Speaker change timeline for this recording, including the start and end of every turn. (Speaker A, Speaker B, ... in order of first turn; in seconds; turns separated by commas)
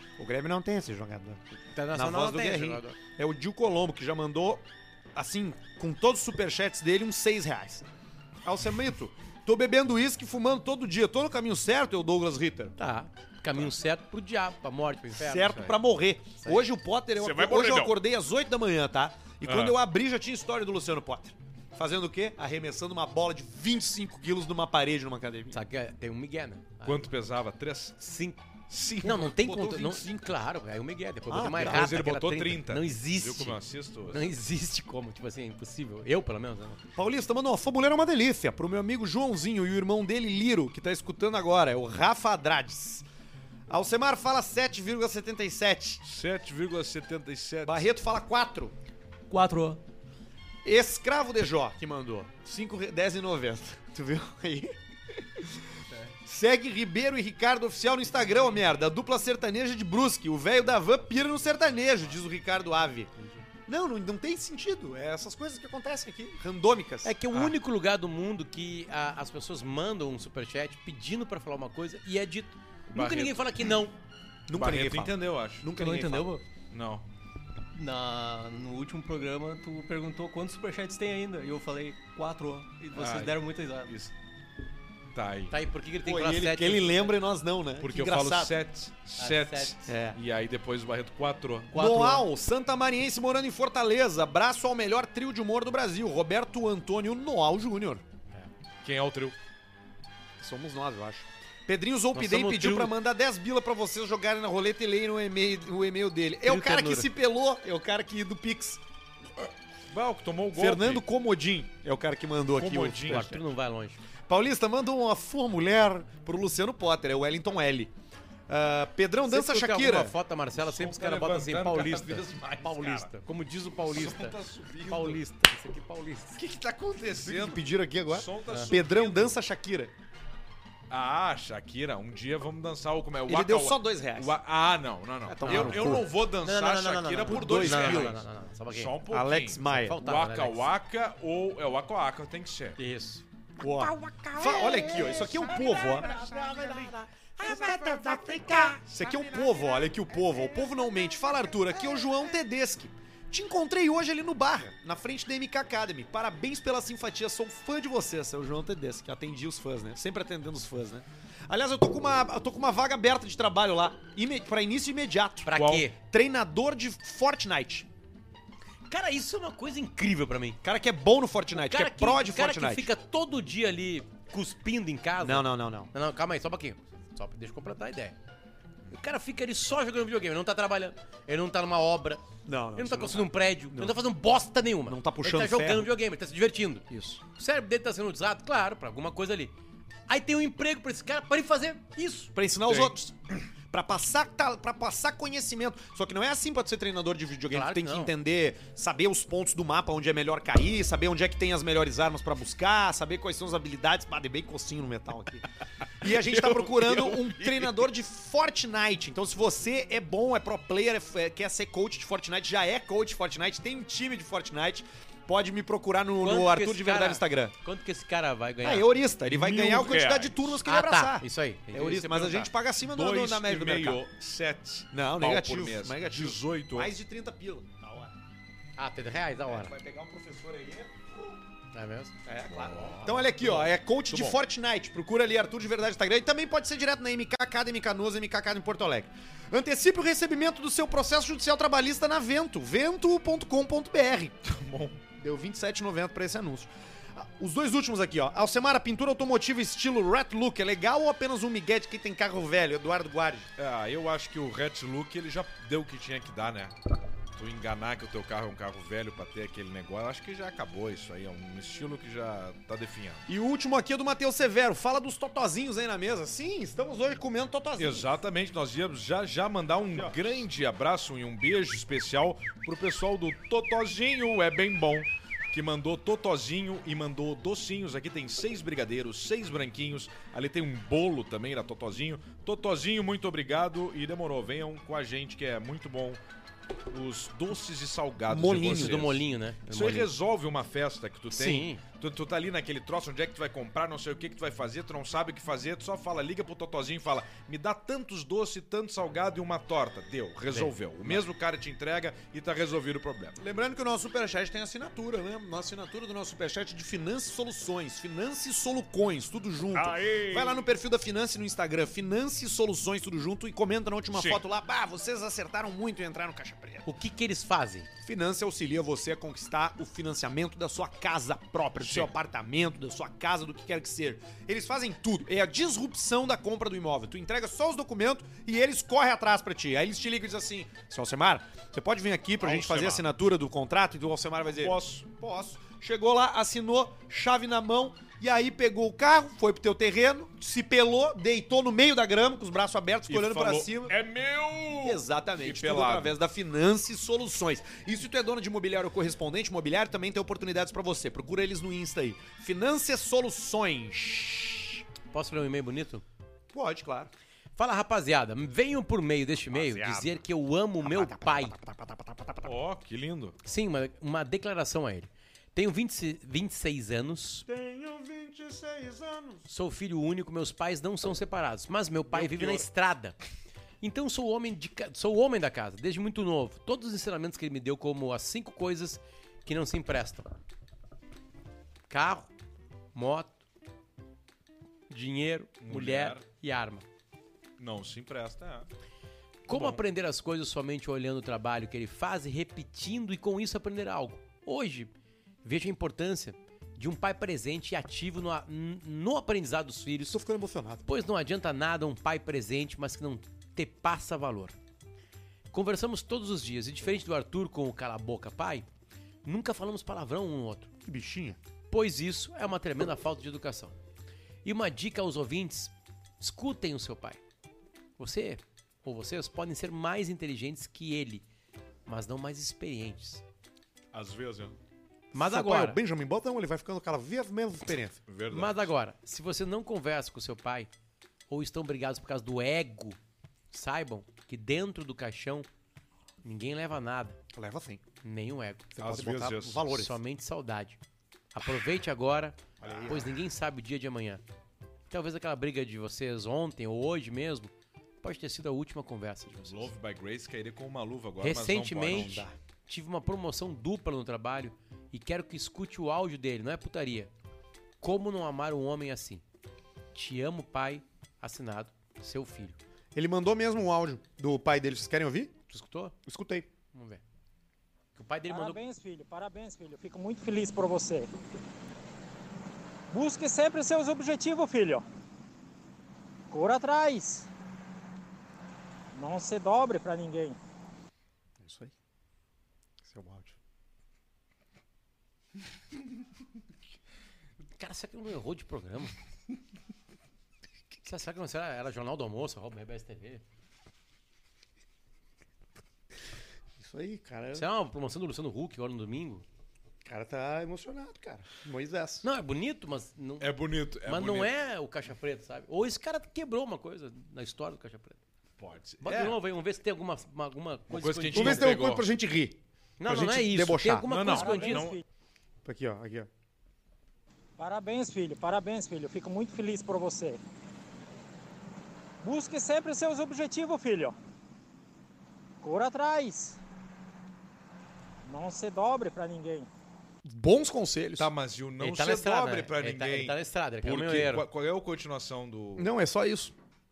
Speaker A: 0.2-7.9, Speaker B: 1.7-3.0, Speaker A: 8.4-12.7, Speaker B: 12.8-15.7, Speaker A: 15.1-25.6, Speaker C: 17.1-18.0, Speaker C: 19.4-19.8, Speaker B: 25.5-27.1, Speaker C: 26.8-28.0, Speaker B: 28.0-28.4, Speaker C: 28.7-29.3, Speaker B: 29.0-33.6, Speaker A: 29.0-30.3, Speaker A: 31.3-32.0, Speaker C: 31.6-34.3, Speaker B: 34.1-36.8, Speaker A: 37.0-43.0, Speaker A: 43.7-46.0, Speaker C: 46.0-47.9, Speaker A: 47.6-48.7, Speaker D: 49.3-49.8, Speaker A: 50.6-55.6, Speaker A: 56.2-63.1, Speaker A: 63.7-67.1, Speaker B: 67.0-74.0, Speaker C: 72.9-73.6, Speaker A: 74.5-76.4, Speaker C: 74.5-75.7, Speaker D: 75.7-76.4, Speaker C: 76.7-77.0, Speaker D: 77.7-83.9, Speaker C: 82.9-84.1, Speaker C: 85.1-85.5, Speaker B: 85.5-87.1, Speaker A: 86.0-88.5, Speaker C: 87.8-91.8, Speaker B: 89.2-89.8, Speaker A: 89.8-90.2, Speaker A: 91.7-98.0, Speaker C: 98.8-99.3, Speaker A: 100.4-108.8, Speaker B: 102.1-102.9, Speaker B: 106.4-107.1, Speaker C: 109.9-111.0, Speaker A: 110.5-113.4, Speaker C: 112.6-113.4, Speaker B: 113.1-114.0, Speaker A: 114.3-117.9, Speaker A: 118.5-120.1, Speaker B: 119.3-124.3, Speaker C: 120.5-123.1, Speaker C: 123.8-125.2, Speaker B: 124.9-126.4, Speaker C: 126.4-129.4, Speaker A: 127.2-129.9, Speaker C: 130.9-142.8, Speaker A: 133.3-134.3, Speaker A: 135.2-136.1, Speaker B: 135.4-138.9, Speaker A: 137.2-138.2, Speaker A: 139.1-140.0, Speaker B: 139.7-140.7, Speaker B: 142.8-143.2, Speaker A: 143.6-167.9, Speaker B: 144.0-144.8, Speaker C: 146.0-146.8, Speaker B: 146.1-146.9, Speaker B: 147.4-148.6, Speaker B: 165.4-165.9, Speaker C: 165.6-165.8, Speaker B: 168.9-170.6, Speaker A: 170.6-172.9, Speaker B: 171.5-178.2, Speaker A: 175.2-175.9, Speaker B: 178.9-182.2, Speaker A: 182.4-184.0, Speaker B: 182.8-189.5, Speaker A: 184.9-185.9, Speaker A: 186.9-187.2, Speaker B: 190.1-192.3, Speaker A: 192.3-193.1, Speaker C: 192.7-192.9, Speaker A: 193.7-205.4, Speaker B: 197.5-198.1, Speaker A: 206.0-217.5, Speaker C: 206.0-207.7, Speaker B: 216.2-218.9, Speaker A: 218.6-224.0, Speaker C: 219.3-220.6, Speaker B: 220.6-222.5, Speaker C: 222.9-226.9, Speaker A: 224.9-228.1, Speaker B: 228.8-229.7, Speaker A: 229.4-231.1, Speaker B: 231.7-232.1, Speaker A: 232.2-244.4, Speaker C: 232.5-234.4, Speaker C: 244.4-245.0, Speaker A: 245.2-253.5, Speaker C: 253.6-256.7, Speaker C: 257.4-263.2, Speaker A: 263.3-268.1, Speaker C: 267.8-286.2, Speaker C: 286.9-303.4, Speaker A: 288.3-289.1, Speaker B: 288.4-289.9, Speaker A: 289.7-290.1, Speaker B: 291.3-291.8, Speaker A: 303.4-316.9, Speaker C: 309.7-310.6, Speaker C: 314.1-314.4, Speaker B: 316.9-317.9, Speaker A: 318.0-343.9, Speaker C: 321.8-322.1, Speaker C: 332.4-333.0, Speaker C: 334.6-335.1, Speaker C: 343.1-346.1, Speaker A: 344.8-354.8, Speaker B: 355.1-356.0, Speaker A: 356.5-357.1, Speaker B: 357.6-361.6, Speaker A: 359.5-360.2, Speaker A: 360.8-362.5, Speaker C: 362.4-363.4, Speaker B: 363.4-367.4, Speaker A: 367.4-369.4, Speaker B: 369.5-373.2, Speaker C: 372.1-372.6, Speaker B: 373.8-380.3, Speaker B: 381.9-382.3, Speaker B: 382.9-383.4, Speaker B: 384.9-386.9, Speaker C: 385.6-386.2, Speaker C: 387.6-388.7, Speaker C: 389.5-389.8, Speaker B: 389.5-394.9, Speaker B: 395.4-400.2, Speaker A: 400.1-400.8, Speaker B: 400.9-404.6, Speaker B: 405.5-408.7, Speaker B: 409.2-410.7, Speaker A: 410.8-411.4, Speaker B: 411.7-413.8, Speaker B: 414.4-417.2, Speaker B: 418.0-421.2, Speaker B: 421.9-423.2, Speaker C: 423.9-424.6, Speaker B: 425.1-425.8, Speaker A: 425.1-428.0, Speaker C: 428.1-428.7, Speaker B: 428.3-430.7, Speaker B: 431.3-433.0, Speaker B: 433.5-435.5, Speaker B: 436.2-437.2, Speaker A: 437.3-437.8, Speaker B: 438.0-438.7, Speaker A: 438.7-440.0, Speaker C: 438.8-439.6, Speaker B: 439.7-440.8, Speaker B: 441.3-444.2, Speaker A: 442.6-443.1, Speaker B: 444.9-447.5, Speaker B: 448.0-449.7, Speaker C: 449.4-452.2, Speaker B: 451.2-457.1, Speaker A: 451.9-452.3, Speaker B: 457.8-459.2, Speaker B: 459.9-462.6, Speaker A: 462.9-465.3, Speaker B: 465.5-465.9, Speaker A: 466.1-466.5, Speaker B: 466.7-467.0, Speaker B: 467.9-468.6, Speaker E: 468.3-471.1, Speaker E: 472.9-474.8, Speaker E: 476.3-477.3, Speaker E: 478.9-480.4, Speaker A: 481.4-481.7, Speaker A: 482.8-483.4, Speaker B: 487.5-488.9, Speaker B: 490.8-493.2, Speaker A: 496.6-497.4, Speaker B: 497.3-499.2, Speaker A: 499.8-502.0, Speaker B: 502.0-503.3, Speaker C: 503.2-504.3, Speaker B: 503.8-508.0, Speaker C: 508.4-509.2, Speaker B: 508.8-511.6, Speaker C: 510.7-511.9, Speaker A: 511.1-513.9, Speaker B: 512.8-514.7, Speaker C: 513.9-514.8, Speaker E: 514.1-514.8, Speaker A: 515.4-516.1, Speaker E: 517.4-520.2, Speaker E: 522.0-523.9, Speaker E: 525.4-526.4, Speaker E: 528.0-529.5, Speaker A: 530.0-531.1, Speaker C: 531.0-535.7, Speaker B: 531.6-534.3, Speaker A: 535.6-536.3